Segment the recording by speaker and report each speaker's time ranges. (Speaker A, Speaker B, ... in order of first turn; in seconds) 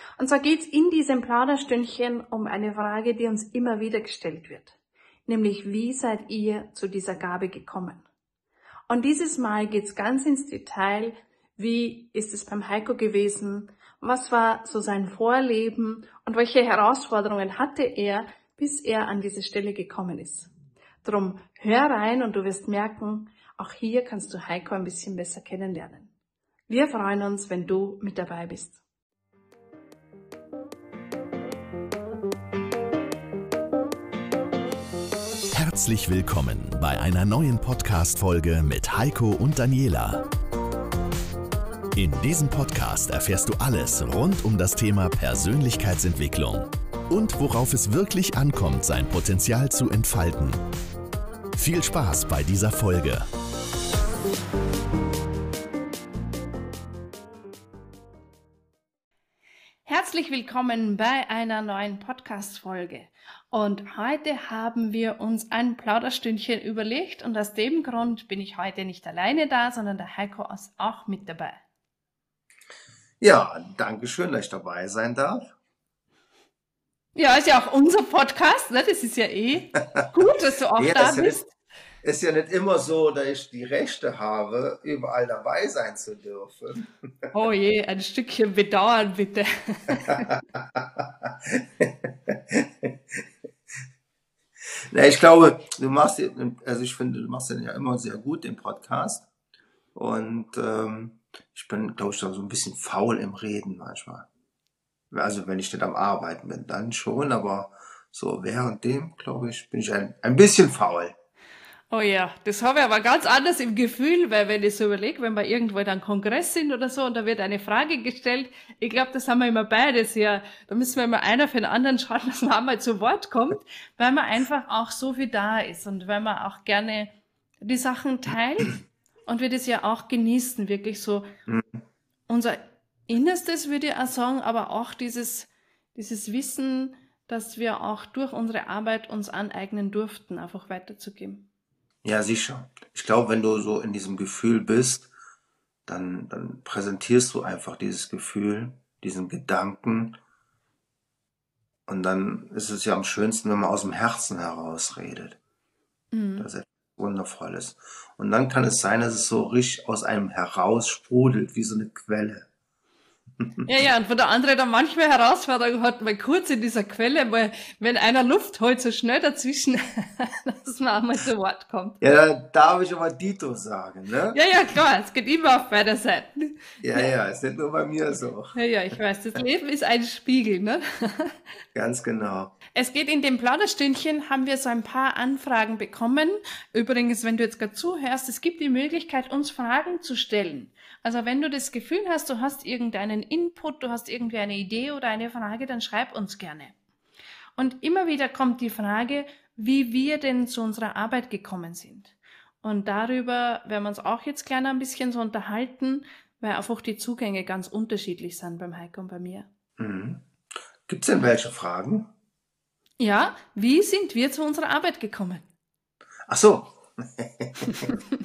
Speaker A: 0.2-4.8, 5.3-8.0, 8.9-20.5, 21.0-26.1, 26.7-28.8, 59.9-71.6, 77.2-81.5, 87.3-90.3, 111.9-131.2, 132.3-141.5, 156.1-156.5, 163.6-172.0, 174.3-177.1, 178.5-181.4, 182.8-196.7, 197.6-209.5, 213.0-215.5
Speaker B: 35.5-40.3, 42.0-50.6, 51.5-53.3
Speaker C: 73.2-75.5, 80.8-81.4, 82.0-87.3, 90.5-93.2, 94.9-99.3, 99.9-104.3, 105.1-111.2, 142.0-145.1, 145.9-150.2, 151.9-155.4, 156.4-162.5, 172.0-174.4, 176.8-178.6, 181.7-182.6, 209.8-210.2, 210.9-212.1, 216.3-218.0